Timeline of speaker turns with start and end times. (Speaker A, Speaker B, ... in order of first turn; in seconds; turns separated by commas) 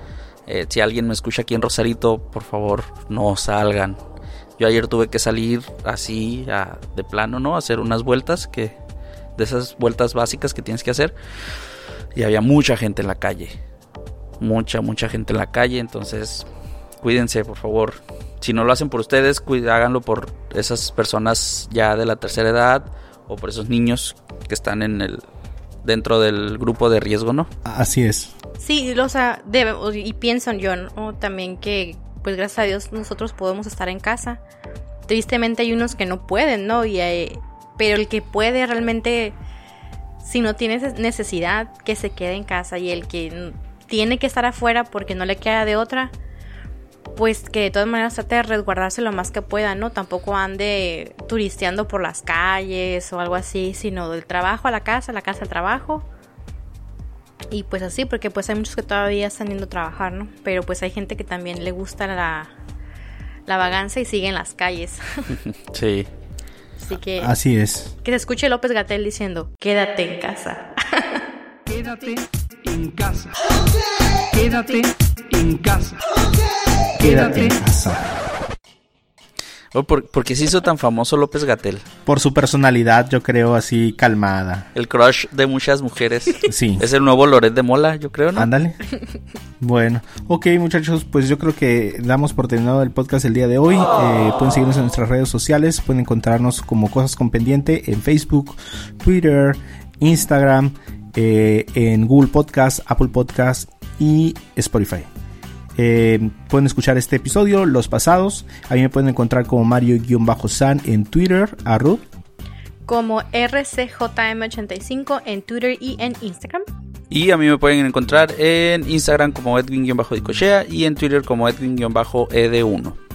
Speaker A: 0.5-4.0, Speaker A: 4.6-8.8, Speaker A: 9.4-11.1, Speaker A: 12.1-13.6, Speaker A: 14.4-16.5, Speaker A: 17.0-25.2, Speaker A: 25.8-27.5, Speaker B: 27.6-28.3, Speaker C: 28.6-34.4, Speaker C: 35.1-39.4, Speaker C: 40.2-46.1, Speaker C: 47.1-56.1, Speaker C: 57.5-62.5, Speaker C: 63.5-65.3, Speaker A: 65.5-66.1, Speaker C: 66.8-67.3, Speaker B: 67.2-67.9, Speaker C: 68.0-71.2, Speaker D: 71.7-73.4, Speaker D: 74.3-76.0, Speaker B: 77.0-78.2, Speaker D: 77.0-77.5, Speaker A: 79.7-81.8, Speaker B: 82.0-84.7, Speaker A: 84.7-88.5, Speaker B: 86.4-86.8, Speaker B: 88.3-88.8, Speaker B: 89.6-105.1, Speaker B: 105.8-112.0, Speaker C: 112.9-116.6, Speaker A: 117.1-123.0